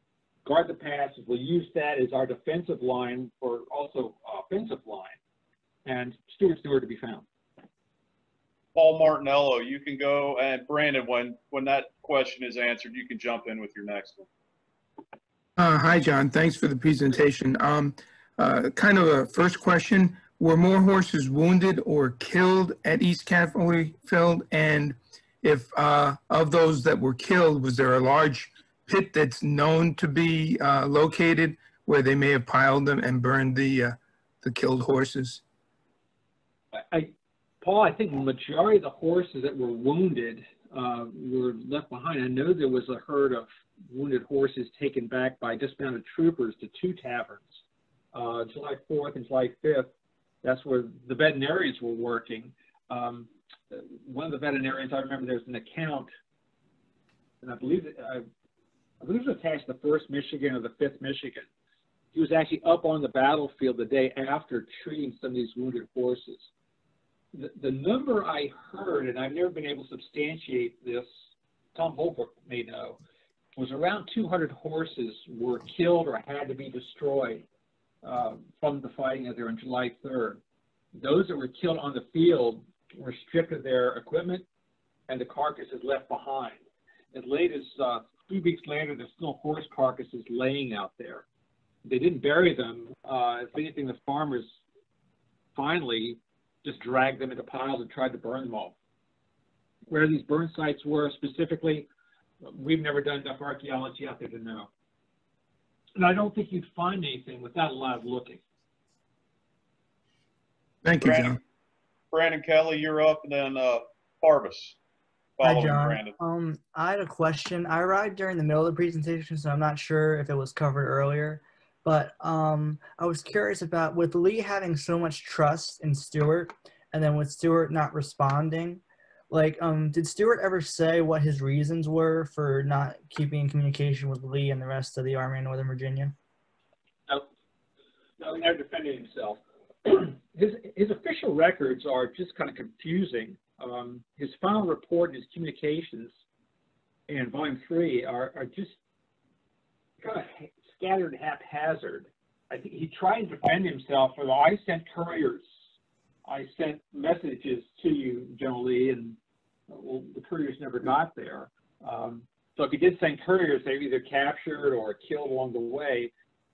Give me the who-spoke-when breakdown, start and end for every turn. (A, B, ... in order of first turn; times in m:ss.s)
0:00.4-0:05.2 A
0:05.8-0:07.2 A
0:08.7-0:14.2 B
0:15.6-0:35.4 C
0:36.7-0:47.6 A
0:48.1-0:49.9 A
0:50.4-0:56.1 A
0:57.4-0:58.2 A
0:59.0-1:01.4 A
1:02.1-1:06.5 A
1:07.3-1:11.1 A
1:11.7-1:13.0 A
1:13.6-1:17.4 A
1:18.0-1:20.4 A
1:21.0-1:24.4 A
1:25.1-1:26.6 A
1:27.1-1:31.2 A
1:31.8-1:34.6 A
1:35.6-1:38.7 A
1:39.9-1:41.9 A
1:42.4-1:44.7 A
1:46.0-1:48.4 A
1:50.8-1:51.4 C
1:51.0-1:51.4 B
1:52.1-1:54.8 B
1:55.4-1:56.1 B
1:55.4-2:16.1 D
2:18.2-2:26.1 A
2:27.1-2:28.8 A
2:30.0-2:35.5 A
2:36.2-2:39.2 A
2:39.7-2:46.1 A